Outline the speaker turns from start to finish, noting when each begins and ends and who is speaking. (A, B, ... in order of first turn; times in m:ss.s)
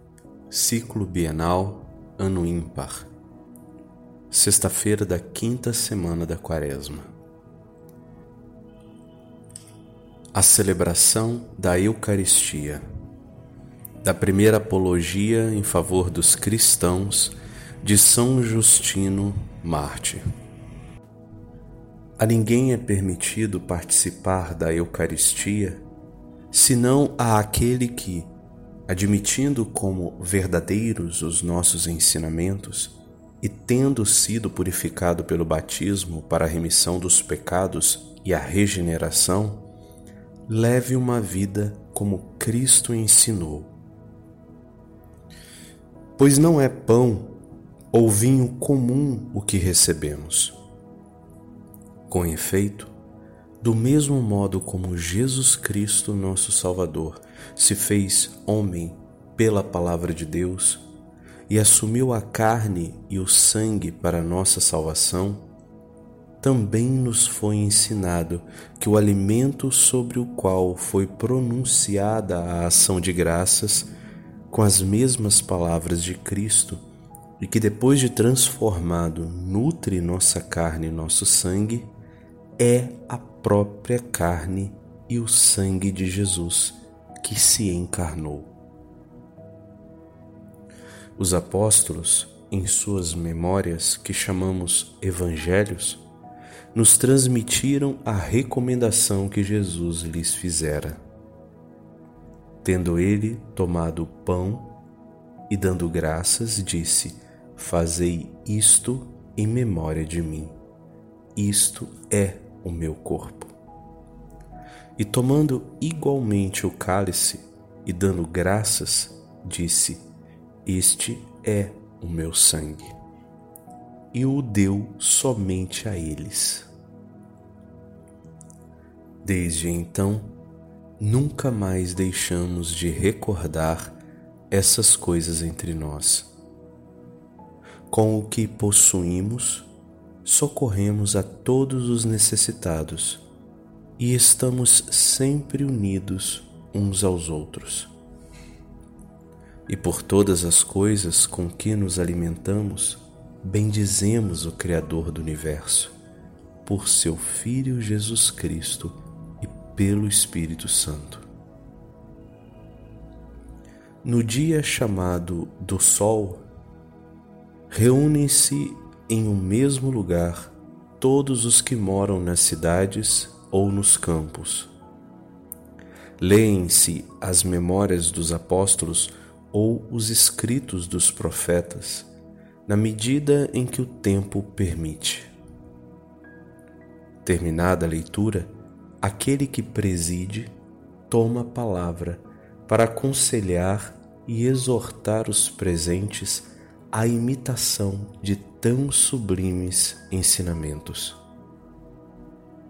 0:00.5-0:03.1 A
0:04.3-0:07.1 A
0:10.3-0:12.8 A
0:14.0-0:20.2 A
0:22.2-0:25.8 A
0:26.5-0:28.3 A
0:28.9-0:39.7 A
0:40.5-0:43.7 A
0:46.2-0:50.6 A
0:52.1-0:52.9 A
0:53.6-1:00.8 A
1:01.5-1:05.5 A
1:06.4-1:13.9 A
1:14.5-1:16.8 A
1:17.4-1:21.9 A
1:22.6-1:28.5 A
1:31.2-1:36.0 A
1:36.7-1:41.0 A
1:42.6-1:44.8 A
1:45.5-1:50.6 A
1:51.4-1:53.5 A
1:55.0-2:00.0 A
2:00.6-2:03.0 A
2:04.1-2:06.7 A
2:09.2-2:10.4 A
2:11.0-2:14.0 A
2:14.5-2:16.3 A
2:17.9-2:19.7 A
2:20.2-2:23.2 A
2:24.0-2:27.9 A
2:29.7-2:35.9 A
2:36.6-2:41.3 A
2:44.0-2:46.4 A
2:47.7-2:54.7 A
2:56.2-3:02.1 A
3:02.7-3:05.3 A
3:07.2-3:10.5 A
3:11.1-3:21.2 A